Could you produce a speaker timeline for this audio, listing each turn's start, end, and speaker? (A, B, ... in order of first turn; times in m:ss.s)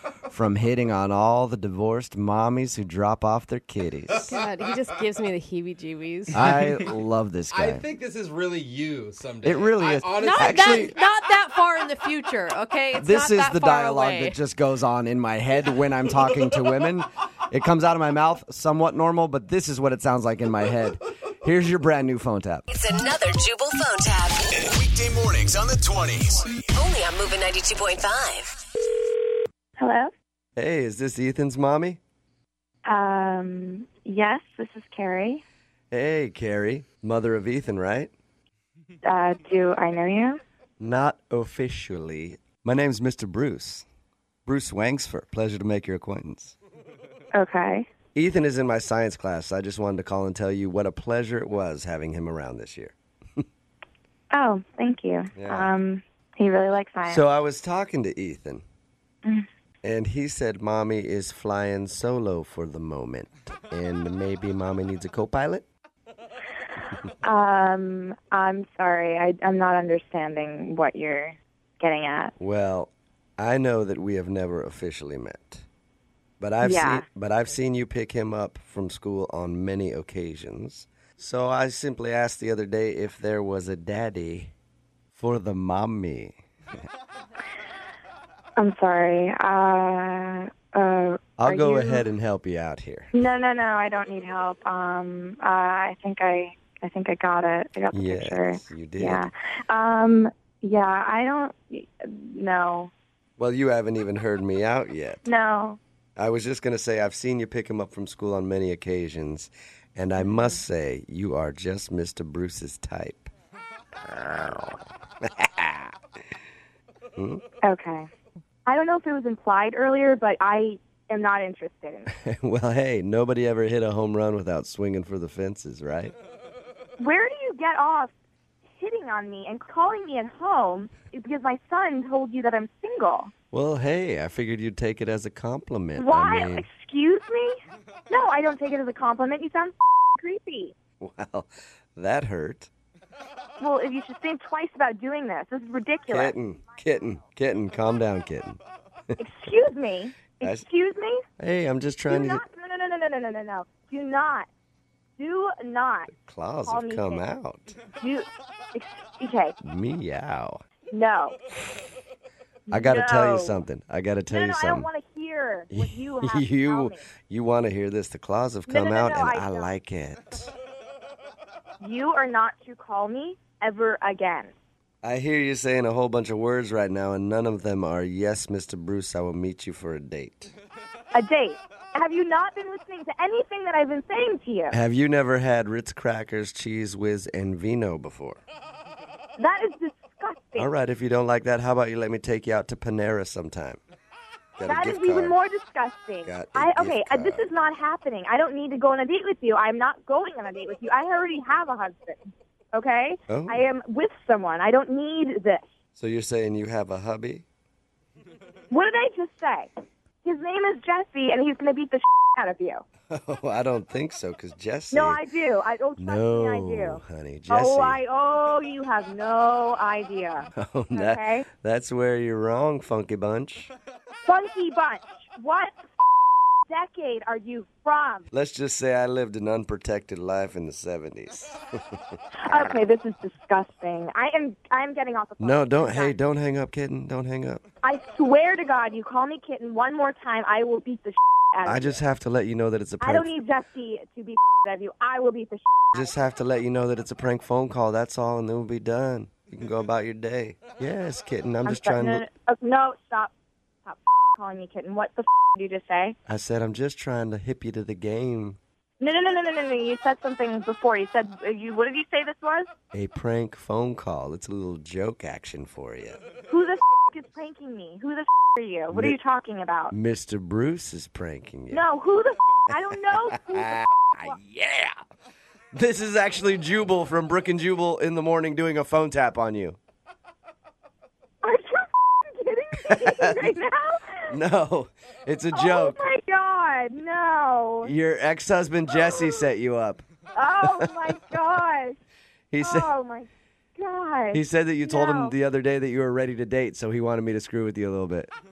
0:00.2-0:04.3 A
0:04.1-0:05.1 B
0:04.3-0:06.4 C
0:06.3-0:07.8 A
0:07.5-0:11.1 B
0:09.4-0:10.9 A
0:10.2-0:14.4 C
0:13.0-0:22.6 A
0:22.7-0:24.4 D
0:24.5-0:26.5 E
0:26.7-0:28.6 D
0:29.8-0:30.1 F
0:30.6-0:32.0 A
0:32.8-0:35.4 F
0:35.9-0:38.1 A
0:39.0-0:40.4 F
0:40.8-0:43.8 A
0:44.4-0:46.5 A
0:47.3-0:47.9 F
0:48.1-0:53.4 A
0:54.3-0:57.2 F
0:55.3-0:55.7 A
0:57.0-0:58.6 A
0:59.8-1:05.6 A
1:07.2-1:12.3 F
1:12.4-1:15.6 A
1:16.4-1:24.5 A
1:16.6-1:17.0 F
1:25.1-1:26.4 A
1:28.6-1:32.0 F
1:31.4-1:33.1 A
1:33.1-1:42.9 F
1:37.9-1:39.3 A
1:43.4-1:45.2 A
1:45.2-1:45.8 F
1:46.2-1:53.3 A
1:50.2-1:50.6 F
1:54.1-1:55.9 A
1:57.2-1:57.4 A
1:57.6-1:58.1 F
1:58.6-2:02.1 F
2:02.1-2:06.1 A
2:07.0-2:08.1 F
2:08.8-2:13.3 F
2:13.5-2:16.6 A
2:16.0-2:17.6 F
2:18.1-2:20.7 F
2:21.0-2:22.7 A
2:23.6-2:26.3 F
2:26.1-2:28.6 A
2:29.2-2:31.2 F
2:31.4-2:32.4 A
2:32.1-2:34.5 F
2:35.2-2:36.1 F
2:36.1-2:37.8 A
2:36.6-2:37.2 F
2:38.0-2:39.5 F
2:39.6-2:40.6 A
2:40.9-2:41.4 F
2:42.7-2:43.6 F
2:42.7-2:44.9 A
2:44.3-2:47.1 F
2:45.7-2:50.5 A
2:48.7-2:49.7 F
2:51.8-2:54.5 F
2:55.0-3:00.5 A
3:01.1-3:04.8 F
3:04.7-3:08.4 A
3:09.4-3:10.7 F
3:10.6-3:13.8 A
3:14.6-3:15.4 A
3:14.6-3:22.2 F
3:16.2-3:17.5 A
3:22.7-3:25.6 F
3:23.3-3:23.6 A
3:26.0-3:27.4 A
3:28.7-3:29.7 F
3:30.2-3:32.8 F
3:33.1-3:35.2 A
3:34.9-3:41.4 F
3:36.0-3:38.0 A
3:40.6-3:43.7 A
3:44.2-3:45.8 F
3:46.7-3:48.3 F
3:48.3-3:51.6 A
3:52.4-3:56.2 F
3:55.4-3:57.6 A
3:57.8-4:02.0 F
4:01.6-4:03.3 A
4:03.0-4:06.2 F
4:05.9-4:12.2 A
4:11.6-4:13.3 F
4:13.8-4:16.2 F
4:16.3-4:18.6 A
4:19.0-4:22.7 F
4:22.9-4:26.2 A
4:26.4-4:29.9 F
4:28.9-4:29.2 A
4:29.9-4:31.8 A
4:31.7-4:34.4 F
4:34.2-4:35.0 A
4:35.7-4:39.8 A
4:41.4-4:44.3 F
4:42.8-4:43.4 A
4:44.3-4:46.0 A
4:45.5-4:47.9 F
4:47.8-4:50.0 A
4:49.0-4:49.4 F
4:50.4-4:52.0 F
4:50.6-4:51.1 A
4:52.5-4:52.9 A
4:52.6-4:55.3 F
4:54.3-4:58.3 A